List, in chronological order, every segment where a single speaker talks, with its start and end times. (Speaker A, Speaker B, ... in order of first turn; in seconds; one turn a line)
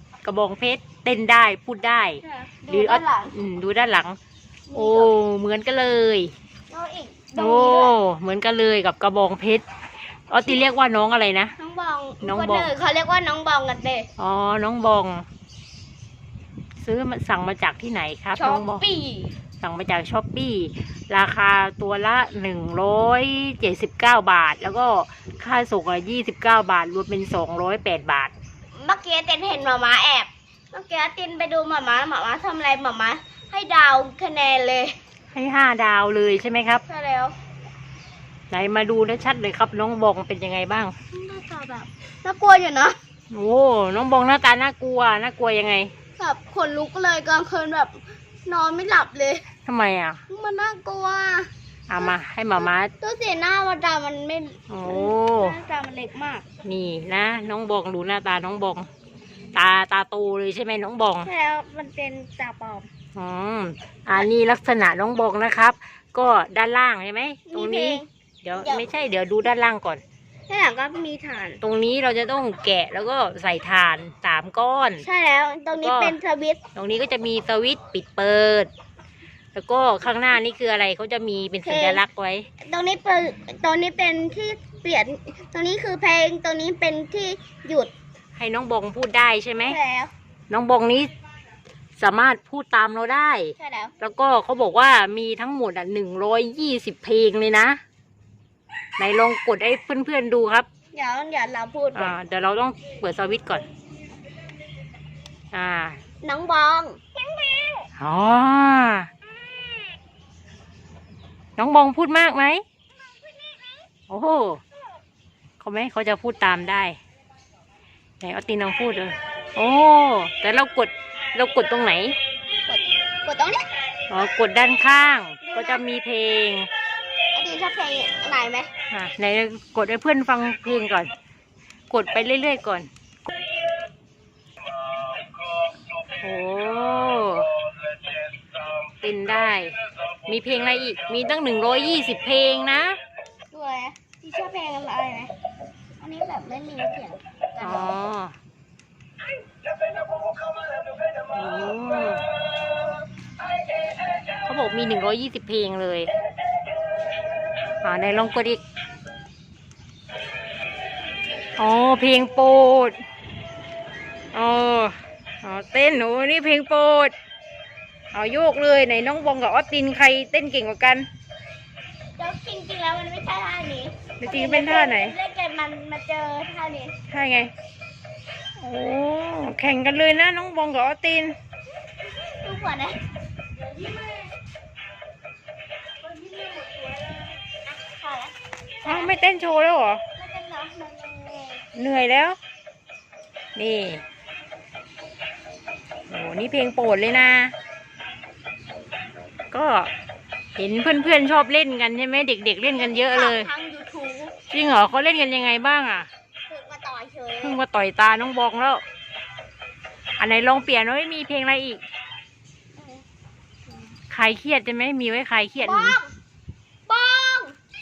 Speaker A: 0.2-4.2
Speaker B: 2.2-3.3
Speaker B: 4.7-5.2
Speaker A: 4.7-6.3
Speaker B: 6.7-8.0
Speaker A: 7.4-11.5
Speaker B: 11.6-14.1
Speaker A: 12.2-12.7
Speaker A: 14.2-15.2
Speaker A: 16.8-18.8
Speaker B: 18.4-19.4
Speaker A: 19.6-28.3
Speaker B: 28.7-35.0
Speaker A: 35.3-36.8
Speaker B: 36.9-37.4
Speaker A: 38.5-40.9
Speaker B: 41.1-43.0
Speaker A: 43.3-45.9
Speaker B: 46.2-49.4
Speaker A: 49.7-50.2
Speaker B: 50.3-56.5
Speaker A: 51.9-52.9
Speaker A: 54.7-55.6
Speaker A: 56.6-58.9
Speaker A: 59.5-61.3
Speaker B: 61.2-62.9
Speaker A: 63.1-70.0
Speaker B: 67.5-68.8
Speaker B: 70.5-71.6
Speaker A: 71.6-75.0
Speaker B: 75.0-76.6
Speaker A: 75.8-76.1
Speaker A: 76.7-78.7
Speaker A: 79.5-82.5
Speaker B: 81.6-82.0
Speaker B: 82.6-87.9
Speaker A: 88.3-89.8
Speaker B: 89.6-90.1
Speaker A: 90.5-91.1
Speaker A: 92.0-97.8
Speaker B: 93.6-93.9
Speaker A: 99.0-100.7
Speaker B: 100.9-102.2
Speaker A: 101.9-103.7
Speaker A: 105.5-106.0
Speaker B: 106.2-107.0
Speaker A: 108.0-109.1
Speaker A: 111.6-112.6
Speaker A: 114.1-114.6
Speaker A: 115.6-117.0
Speaker A: 118.2-122.2
Speaker B: 122.7-123.7
Speaker A: 124.1-126.7
Speaker B: 125.4-125.8
Speaker B: 127.3-128.7
Speaker A: 128.9-131.1
Speaker A: 131.9-132.9
Speaker A: 136.2-137.5
Speaker A: 139.0-143.0
Speaker B: 143.5-145.3
Speaker B: 146.0-148.0
Speaker A: 147.6-148.3
Speaker A: 151.3-152.2
Speaker A: 154.4-156.1
Speaker A: 157.8-158.6
Speaker A: 161.6-163.0
Speaker A: 164.3-167.1
Speaker A: 168.1-171.1
Speaker B: 172.2-176.9
Speaker A: 174.2-175.1
Speaker A: 177.1-177.5
Speaker A: 178.6-181.3
Speaker B: 182.4-183.0
Speaker B: 183.8-184.2
Speaker B: 186.0-189.2
Speaker A: 188.8-190.0
Speaker B: 190.2-191.7
Speaker A: 191.7-192.4
Speaker A: 193.6-194.0
Speaker A: 196.1-197.5
Speaker A: 199.5-199.9
Speaker A: 200.6-203.5
Speaker B: 202.7-204.3
Speaker A: 204.5-206.1
Speaker B: 206.5-207.6
Speaker A: 207.4-208.8
Speaker A: 210.2-211.8
Speaker B: 212.8-213.0
Speaker A: 214.1-216.0
Speaker B: 215.6-216.1
Speaker B: 216.8-217.6